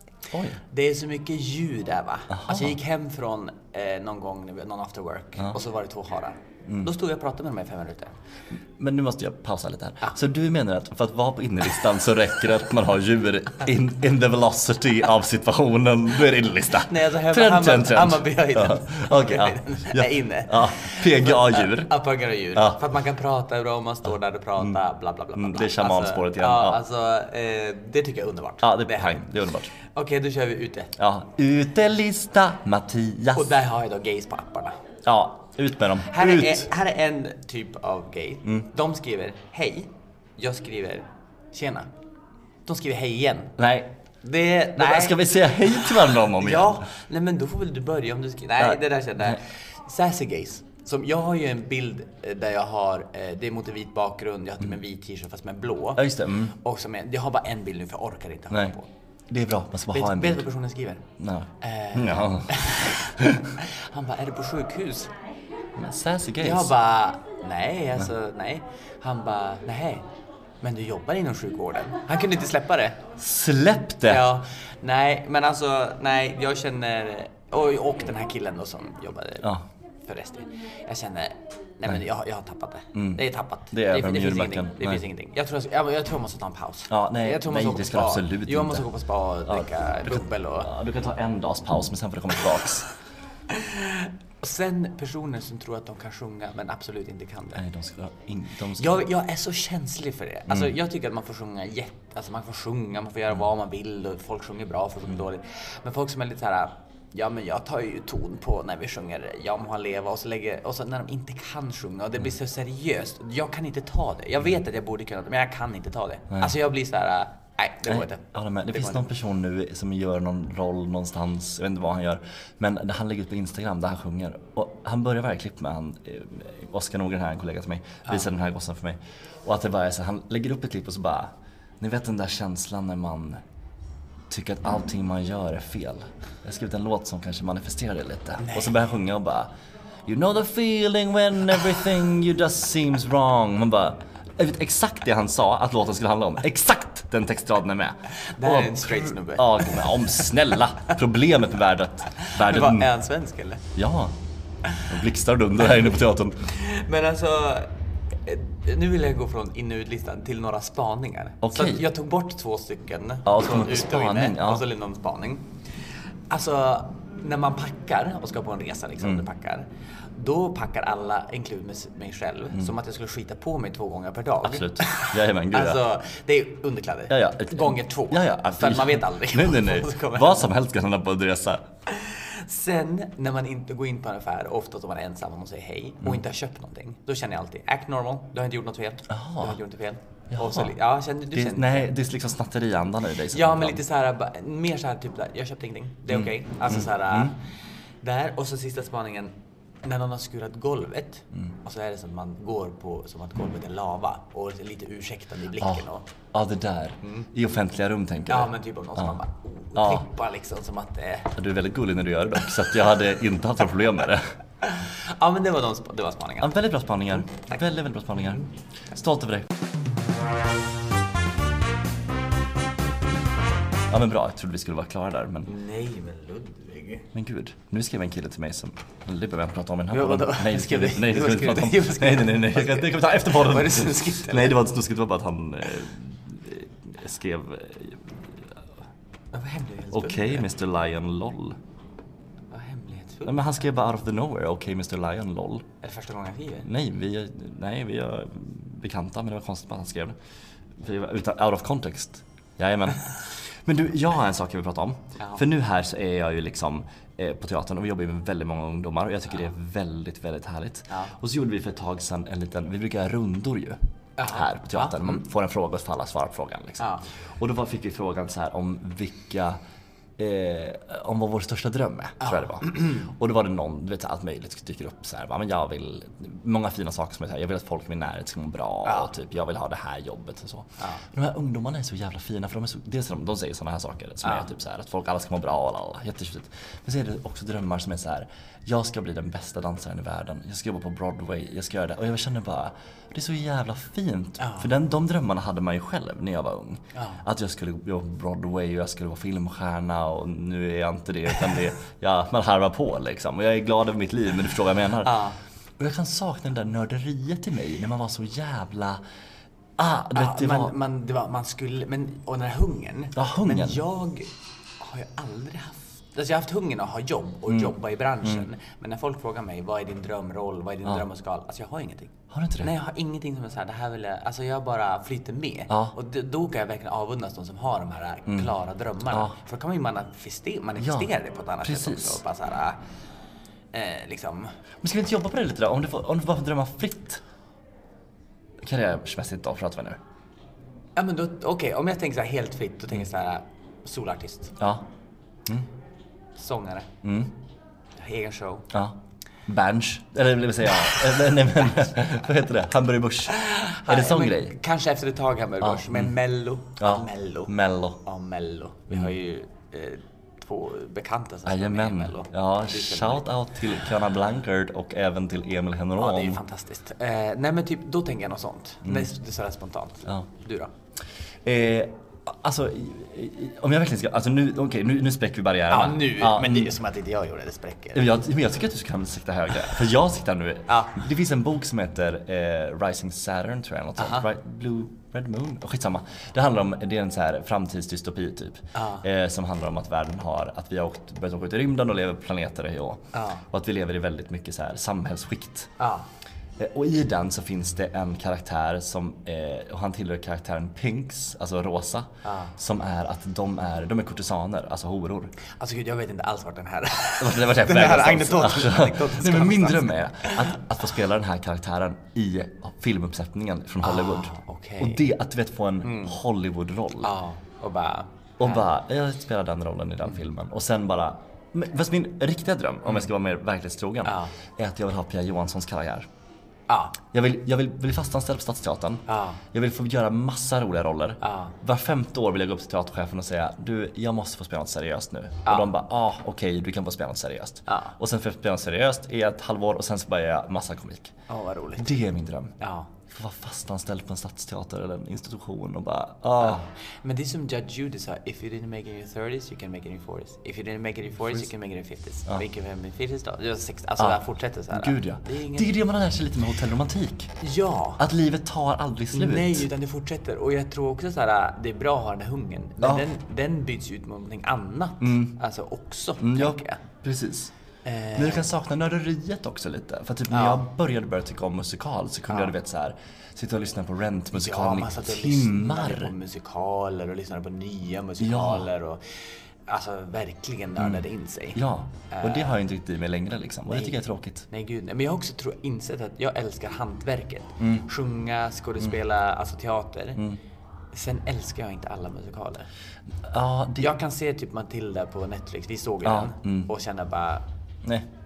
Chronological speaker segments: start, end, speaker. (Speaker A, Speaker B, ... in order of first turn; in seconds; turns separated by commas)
Speaker A: 0.3-0.6, Speaker B: 0.6-8.1, Speaker A: 2.3-2.8, Speaker A: 8.7-21.9, Speaker B: 16.8-30.9, Speaker A: 22.5-22.8, Speaker A: 25.3-26.8, Speaker A: 28.6-29.7, Speaker A: 31.0-33.5, Speaker B: 33.3-34.8, Speaker A: 35.0-36.7, Speaker B: 36.0-41.9, Speaker B: 42.6-43.5, Speaker A: 43.6-43.9, Speaker B: 44.2-58.9, Speaker A: 44.8-46.9, Speaker A: 48.6-49.4, Speaker A: 56.0-56.5, Speaker A: 59.3-60.5, Speaker B: 59.9-61.0, Speaker A: 61.2-63.6, Speaker B: 61.6-65.1, Speaker A: 65.8-66.7, Speaker B: 66.4-70.1, Speaker B: 70.6-73.0, Speaker A: 73.2-74.2, Speaker B: 74.0-79.5, Speaker B: 80.0-90.7, Speaker A: 82.9-85.0, Speaker A: 86.9-88.8, Speaker A: 89.5-92.9, Speaker B: 93.5-97.6, Speaker A: 97.5-99.0, Speaker B: 98.8-119.0, Speaker A: 117.9-133.4, Speaker A: 134.3-139.5, Speaker B: 138.4-138.8, Speaker A: 140.1-152.9, Speaker B: 148.1-150.3, Speaker B: 152.2-153.6, Speaker A: 153.7-154.1, Speaker A: 154.8-156.5, Speaker B: 156.4-157.7, Speaker B: 158.2-180.5, Speaker A: 161.4-161.8, Speaker A: 163.2-164.7, Speaker A: 174.4-175.8, Speaker A: 177.1-181.7, Speaker B: 181.8-191.9, Speaker A: 189.1-189.6, Speaker A: 190.3-190.8, Speaker A: 191.3-193.8, Speaker B: 193.3-197.5, Speaker A: 196.1-197.3, Speaker B: 198.0-206.1, Speaker A: 205.6-209.2, Speaker B: 207.0-207.3, Speaker B: 208.3-211.4, Speaker A: 209.8-210.1, Speaker A: 211.3-214.3, Speaker B: 214.6-216.6, Speaker A: 216.4-219.5, Speaker B: 217.1-217.6, Speaker A: 223.9-225.5, Speaker B: 225.4-227.1, Speaker A: 227.1-238.2, Speaker B: 229.9-234.6, Speaker B: 239.3-240.5, Speaker A: 239.9-241.6, Speaker B: 242.5-243.4, Speaker A: 243.2-245.7, Speaker B: 245.8-246.7, Speaker A: 246.6-250.2, Speaker A: 250.8-269.6, Speaker B: 255.2-255.4, Speaker B: 260.9-261.1, Speaker B: 264.2-265.2, Speaker B: 266.8-267.1, Speaker A: 270.2-305.2, Speaker B: 272.2-273.0, Speaker B: 294.4-294.7, Speaker B: 296.9-297.2, Speaker B: 305.0-305.4, Speaker A: 305.8-309.0, Speaker A: 309.8-310.7, Speaker B: 310.1-332.8, Speaker A: 313.1-313.8, Speaker A: 317.5-318.4, Speaker A: 322.3-322.7, Speaker A: 325.7-325.9, Speaker A: 330.8-331.1, Speaker A: 331.6-332.2, Speaker B: 333.7-334.5, Speaker A: 334.8-337.2, Speaker A: 338.6-340.0, Speaker B: 340.9-344.5, Speaker A: 344.6-344.8, Speaker B: 346.4-346.9, Speaker A: 347.0-347.3, Speaker B: 348.0-348.7, Speaker A: 348.7-354.5, Speaker B: 353.3-363.2, Speaker A: 355.6-356.1, Speaker A: 356.8-358.0, Speaker A: 361.4-366.4, Speaker B: 366.0-370.7, Speaker A: 368.8-369.1, Speaker A: 371.4-376.7, Speaker B: 375.7-378.1, Speaker A: 377.9-395.7, Speaker B: 380.7-381.0, Speaker B: 384.0-384.3, Speaker B: 388.7-389.1, Speaker B: 393.1-393.4, Speaker B: 395.8-396.1, Speaker A: 396.6-405.3, Speaker B: 402.2-402.5, Speaker B: 405.6-410.5, Speaker A: 407.2-417.1, Speaker B: 413.8-415.0, Speaker B: 415.8-416.2, Speaker B: 417.0-418.6, Speaker A: 418.4-426.1, Speaker B: 424.0-424.3, Speaker B: 426.7-427.0, Speaker A: 427.1-441.1, Speaker B: 429.1-429.4, Speaker B: 431.2-431.5, Speaker B: 437.7-437.9, Speaker B: 441.3-442.0, Speaker A: 441.8-446.7, Speaker B: 442.6-442.9, Speaker B: 446.4-455.7, Speaker A: 454.0-457.3, Speaker B: 457.4-458.0, Speaker A: 458.0-459.7, Speaker B: 459.1-466.8, Speaker A: 465.0-465.4, Speaker A: 466.2-467.5, Speaker B: 467.8-468.5, Speaker A: 468.1-476.1, Speaker B: 470.3-470.6, Speaker B: 472.3-472.5, Speaker B: 474.3-482.6, Speaker A: 478.2-478.7, Speaker A: 480.8-481.0, Speaker A: 481.5-484.4, Speaker B: 483.7-484.0, Speaker B: 484.5-490.2, Speaker A: 487.6-487.9, Speaker B: 490.9-492.7, Speaker A: 493.3-493.9, Speaker B: 493.8-497.4, Speaker A: 496.0-496.7